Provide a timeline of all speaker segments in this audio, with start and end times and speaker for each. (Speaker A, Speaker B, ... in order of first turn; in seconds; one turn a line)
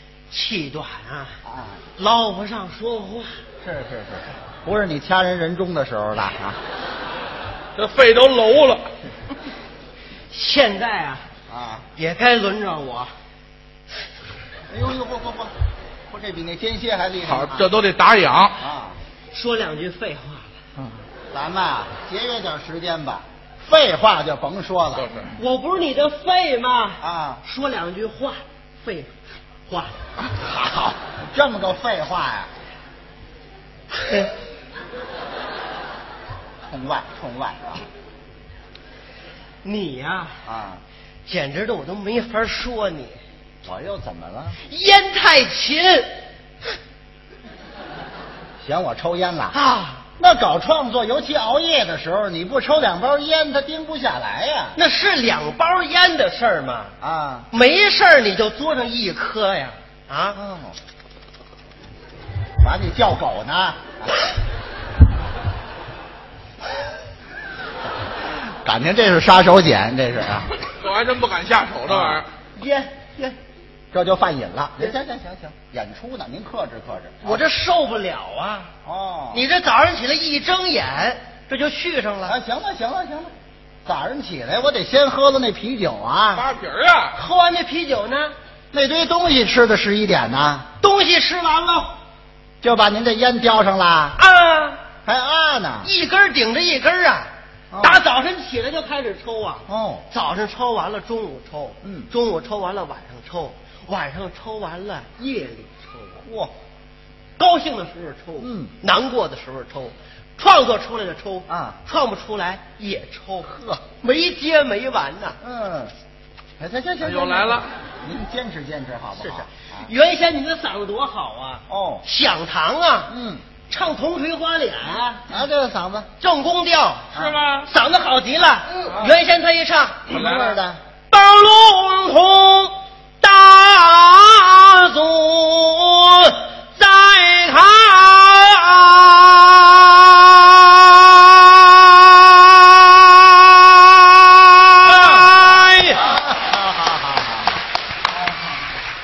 Speaker A: 0.3-1.4
Speaker B: 1.5-1.8
Speaker A: 2.0-3.3
Speaker B: 3.6-6.6
Speaker C: 7.8-8.9
Speaker A: 10.3-11.3
Speaker B: 11.5-11.9
Speaker A: 12.0-13.1
Speaker B: 14.7-15.5
Speaker B: 16.1-17.7
Speaker C: 17.3-18.6
Speaker B: 18.6-19.0
Speaker A: 19.3-20.5
Speaker B: 20.8-25.1
Speaker C: 25.0-25.3
Speaker A: 25.3-29.1
Speaker B: 27.0-27.4
Speaker A: 29.7-30.0
Speaker B: 30.3-32.5
Speaker B: 36.7-37.9
Speaker A: 39.6-40.4
Speaker B: 40.5-40.8
Speaker A: 41.3-43.2
Speaker B: 43.6-44.6
Speaker A: 44.6-46.1
Speaker B: 48.6-49.6
Speaker A: 49.5-50.0
Speaker B: 50.2-54.8
Speaker A: 54.8-56.9
Speaker B: 57.0-57.5
Speaker A: 57.5-60.4
Speaker B: 60.4-60.8
Speaker B: 62.6-64.1
Speaker B: 68.6-70.5
Speaker C: 70.6-72.3
Speaker B: 71.9-72.2
Speaker A: 72.6-73.4
Speaker B: 73.9-77.5
Speaker A: 77.2-78.7
Speaker B: 78.8-79.4
Speaker A: 79.3-82.3
Speaker B: 82.2-83.3
Speaker B: 83.8-86.5
Speaker C: 86.3-87.2
Speaker A: 87.1-88.3
Speaker B: 88.7-90.7
Speaker A: 90.8-91.9
Speaker B: 92.6-94.2
Speaker A: 94.2-94.8
Speaker B: 95.1-95.9
Speaker A: 95.8-97.3
Speaker B: 97.7-98.0
Speaker A: 97.8-106.2
Speaker B: 99.7-100.0
Speaker B: 101.8-102.1
Speaker B: 106.2-106.5
Speaker A: 107.4-115.4
Speaker B: 108.4-108.7
Speaker B: 111.5-111.8
Speaker B: 115.4-115.9
Speaker B: 116.6-119.9
Speaker C: 117.0-117.7
Speaker A: 119.2-123.1
Speaker B: 121.7-122.0
Speaker B: 123.1-123.4
Speaker A: 123.7-125.2
Speaker B: 125.3-126.1
Speaker A: 126.2-127.1
Speaker B: 127.1-127.4
Speaker C: 127.1-127.7
Speaker A: 127.7-130.4
Speaker C: 128.9-129.2
Speaker C: 130.1-130.6
Speaker B: 130.1-130.8
Speaker A: 131.1-146.1
Speaker B: 144.9-145.3
Speaker B: 146.0-147.6